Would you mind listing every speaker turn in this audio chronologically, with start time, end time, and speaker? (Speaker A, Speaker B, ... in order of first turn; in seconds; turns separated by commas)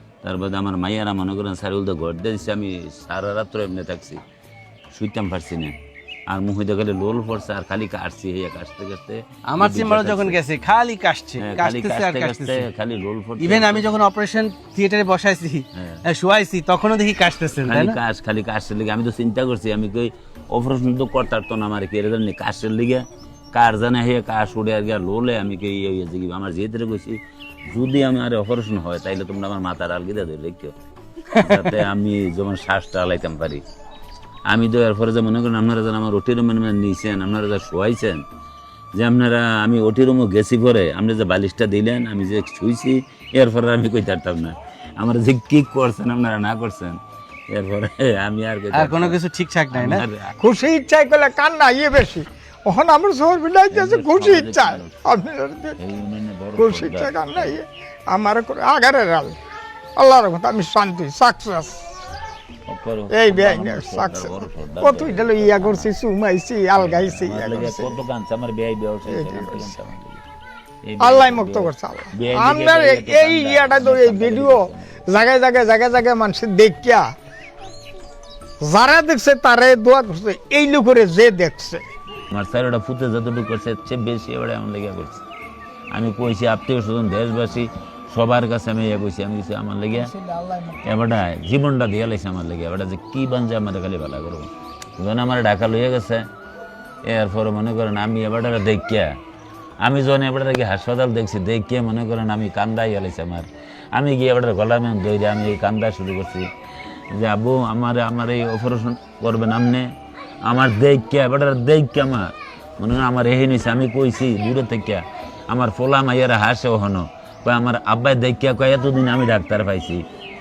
Speaker A: 0.2-4.2, Speaker A: 4.9-5.8, Speaker A: 6.3-10.4, Speaker B: 9.5-12.7, Speaker A: 11.4-13.9, Speaker B: 13.4-18.0, Speaker A: 15.8-16.0, Speaker A: 17.6-30.8, Speaker B: 31.3-31.8, Speaker A: 31.3-33.6, Speaker A: 34.5-38.2, Speaker A: 39.0-49.2, Speaker B: 48.7-50.0, Speaker A: 49.7-50.4, Speaker C: 50.4-55.8, Speaker A: 53.7-55.0, Speaker A: 55.8-57.6, Speaker C: 56.6-59.4, Speaker C: 60.0-61.9, Speaker A: 62.7-65.9, Speaker C: 63.1-68.0, Speaker A: 66.8-70.2, Speaker C: 69.1-69.8, Speaker A: 70.8-75.0, Speaker C: 71.0-77.1, Speaker C: 78.6-81.8, Speaker A: 82.3-85.2, Speaker A: 85.9-90.1, Speaker C: 90.0-90.8, Speaker A: 90.8-96.3, Speaker A: 97.0-99.2, Speaker A: 99.8-106.5, Speaker A: 107.1-120.0